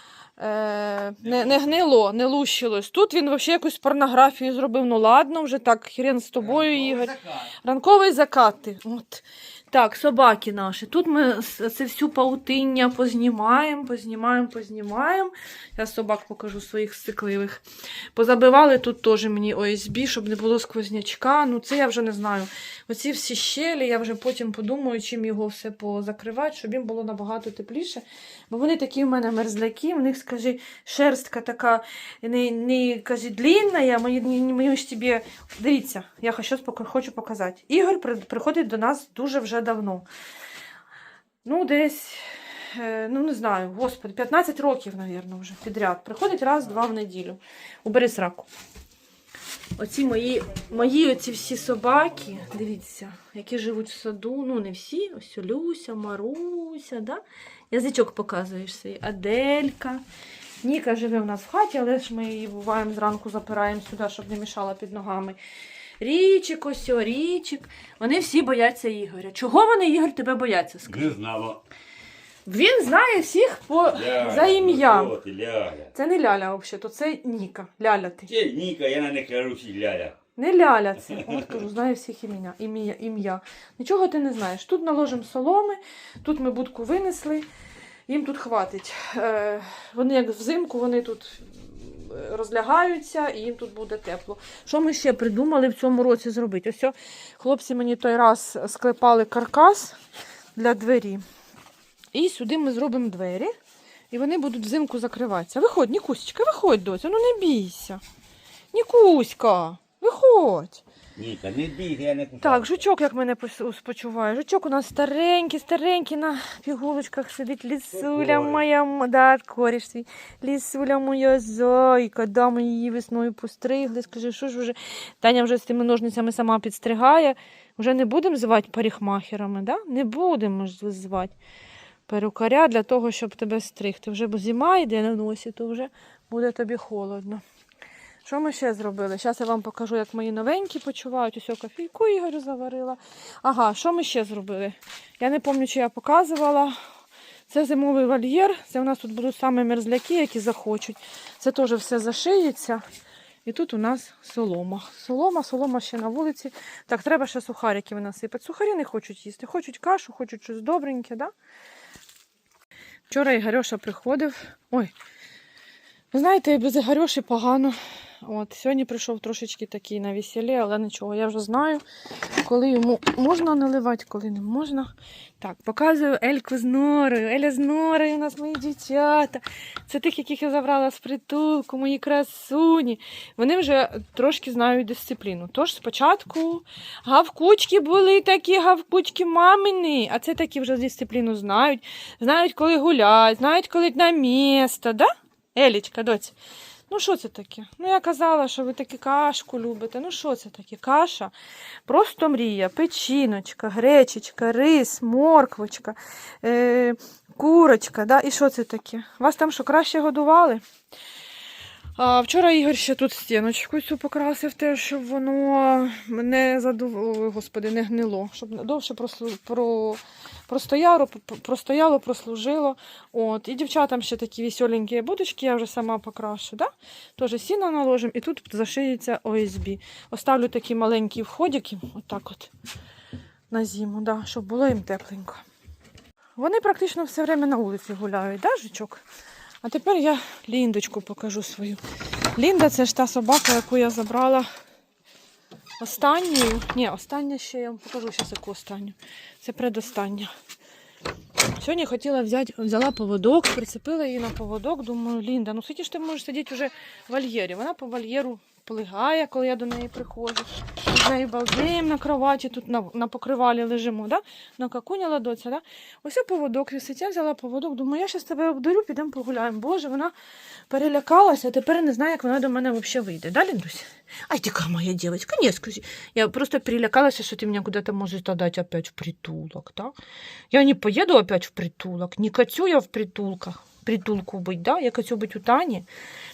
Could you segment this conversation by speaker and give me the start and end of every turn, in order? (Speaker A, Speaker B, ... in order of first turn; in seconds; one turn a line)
Speaker A: 0.4-17.6
Speaker B: 1.2-1.7
Speaker B: 6.4-7.5
Speaker A: 18.1-40.0
Speaker A: 41.4-48.5
Speaker A: 49.8-60.0
Speaker A: 60.6-65.4
Speaker A: 66.0-71.1
Speaker B: 70.8-71.6
Speaker A: 72.5-75.1
Speaker B: 73.9-75.9
Speaker A: 75.9-78.3
Speaker B: 78.3-80.1
Speaker A: 80.3-87.5
Speaker B: 81.1-81.6
Speaker A: 88.1-100.0
Speaker A: 100.5-101.2
Speaker A: 102.1-103.5
Speaker A: 104.1-108.0
Speaker A: 108.7-110.8
Speaker B: 111.2-112.8
Speaker A: 112.4-131.3
Speaker B: 117.9-118.6
Speaker A: 132.1-137.4
Speaker A: 138.2-146.7
Speaker A: 147.5-152.8
Speaker A: 153.4-161.3
Speaker A: 163.1-164.9
Speaker A: 166.1-171.8
Speaker A: 172.4-196.3
Speaker A: 196.9-201.3
Speaker A: 201.9-210.6
Speaker A: 212.0-232.5
Speaker A: 233.5-235.4
Speaker A: 236.4-239.0
Speaker A: 239.6-241.8
Speaker A: 242.3-244.5
Speaker A: 245.8-250.3
Speaker A: 251.6-270.1
Speaker A: 270.7-279.9
Speaker A: 280.5-285.9